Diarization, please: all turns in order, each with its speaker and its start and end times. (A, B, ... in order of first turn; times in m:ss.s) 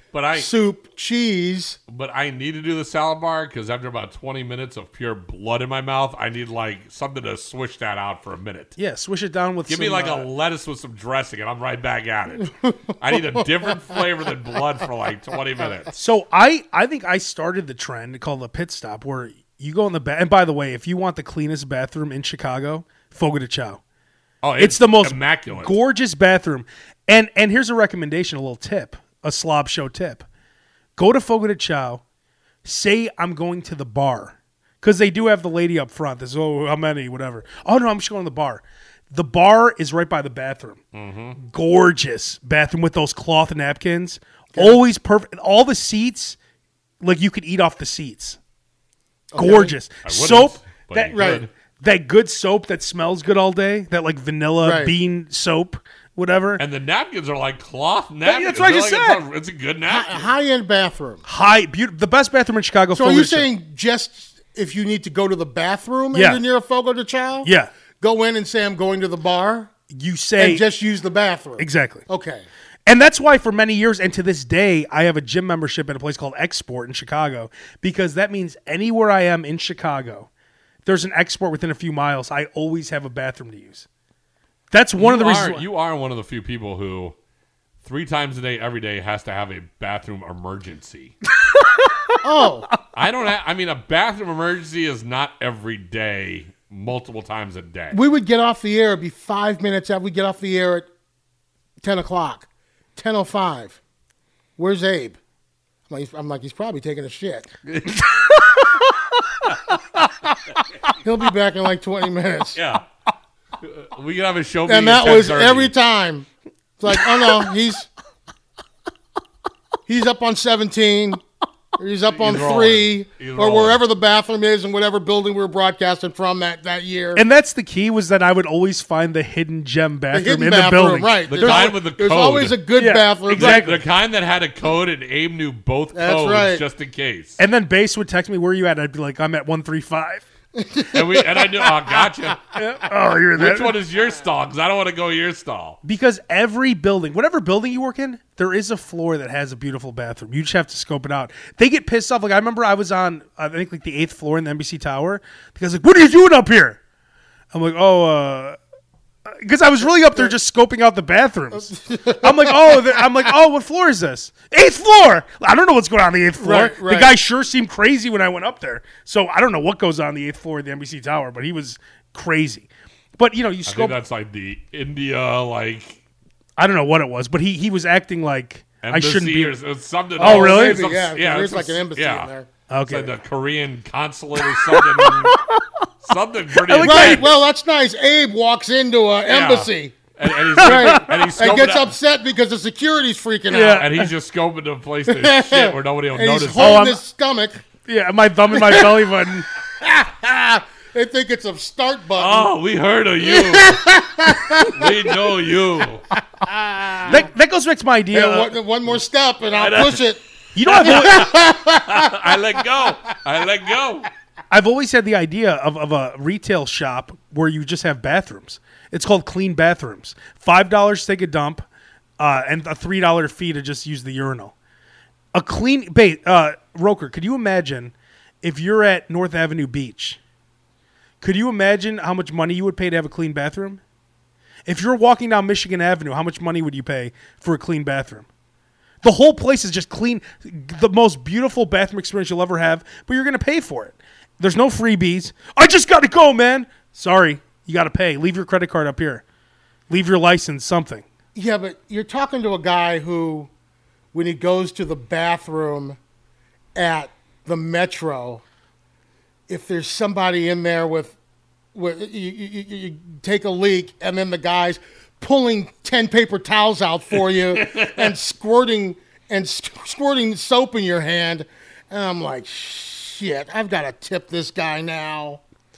0:00.1-0:00.5 A
0:00.3-0:01.8 B
0:01.9-0:08.7 A
0:08.8-0:10.2 C
0:09.7-0:15.9 A
0:12.6-0:13.4 B
0:15.9-0:23.8 C
0:24.4-0:25.8 A
0:24.6-0:30.2 C
0:31.0-0:32.0 C
0:32.6-0:40.8 C
0:40.9-0:41.4 A
0:41.4-0:46.4 C
0:47.0-0:48.4 C
0:49.3-0:49.7 B
0:49.4-0:56.6 C
0:50.0-0:51.5 A
0:51.1-0:51.4 B
0:54.6-0:54.9 B
0:56.6-1:00.3 A
0:58.2-0:59.2 C
0:59.9-1:01.2 B
1:01.2-1:03.5 C
1:02.9-1:07.5 B
1:06.1-1:06.4 C
1:07.4-1:07.7 C
1:08.0-1:09.7 B
1:09.9-1:10.6 C
1:10.4-1:12.4 B
1:11.6-1:12.0 C
1:12.9-1:20.3 C
1:20.8-1:23.9 C
1:24.7-1:25.6 C
1:25.0-1:27.1 A
1:27.8-1:31.1 A
1:31.4-1:32.2 C
1:32.2-1:32.7 B
1:32.9-1:38.0 A
1:37.9-1:40.9 B
1:41.8-1:43.8 B
1:44.6-1:45.2 B
1:45.9-1:47.5 B
1:48.3-1:48.8 C
1:51.0-1:52.6 B
1:52.5-1:52.8 A
1:53.6-1:55.7 A
1:54.7-1:56.3 B
1:56.8-1:57.9 B
1:59.9-2:01.2 B
2:01.8-2:07.2 B
2:02.1-2:03.8 A
2:07.1-2:11.7 C
2:10.1-2:13.8 B
2:11.3-2:12.6 A
2:12.8-2:13.8 C
2:13.3-2:17.4 A
2:15.9-2:16.6 B
2:17.4-2:20.2 C
2:20.5-2:22.1 B
2:20.9-2:22.4 A
2:22.5-2:23.7 C
2:23.3-2:25.8 A
2:25.8-2:36.8 C
2:37.5-2:38.6 C
2:39.3-2:52.7 C
2:41.8-2:43.0 B
2:46.4-2:47.2 B
2:53.2-2:54.0 C
2:53.7-2:56.0 A
2:56.6-2:59.5 C
2:58.8-3:02.3 A
3:00.2-3:00.8 C
3:00.2-3:02.5 B
3:02.7-3:03.1 C
3:02.9-3:05.4 A
3:04.4-3:05.9 C
3:06.0-3:07.3 A
3:06.6-3:07.3 C
3:06.8-3:10.0 B
3:09.3-3:11.9 A
3:10.3-3:11.4 C
3:10.6-3:13.9 B
3:13.5-3:14.1 C
3:13.8-3:16.9 A
3:15.1-3:17.6 B
3:16.6-3:17.0 C
3:17.8-3:19.5 C
3:18.5-3:22.5 B
3:22.2-3:26.0 A
3:23.2-3:25.3 B
3:26.3-3:27.3 B
3:27.1-3:28.5 C
3:28.1-3:32.4 B
3:29.6-3:30.0 A
3:30.6-3:31.3 C
3:30.9-3:34.1 A
3:34.5-3:41.6 C
3:42.2-3:44.5 C
3:45.3-3:50.2 C
3:51.2-3:53.8 C
3:54.7-3:58.3 C
3:59.0-4:09.2 C
4:09.9-4:11.0 C
4:11.3-4:13.5 B
4:14.1-4:16.0 B
4:16.7-4:18.4 B
4:19.5-4:21.2 B
4:21.7-4:35.4 B
4:27.7-4:27.9 A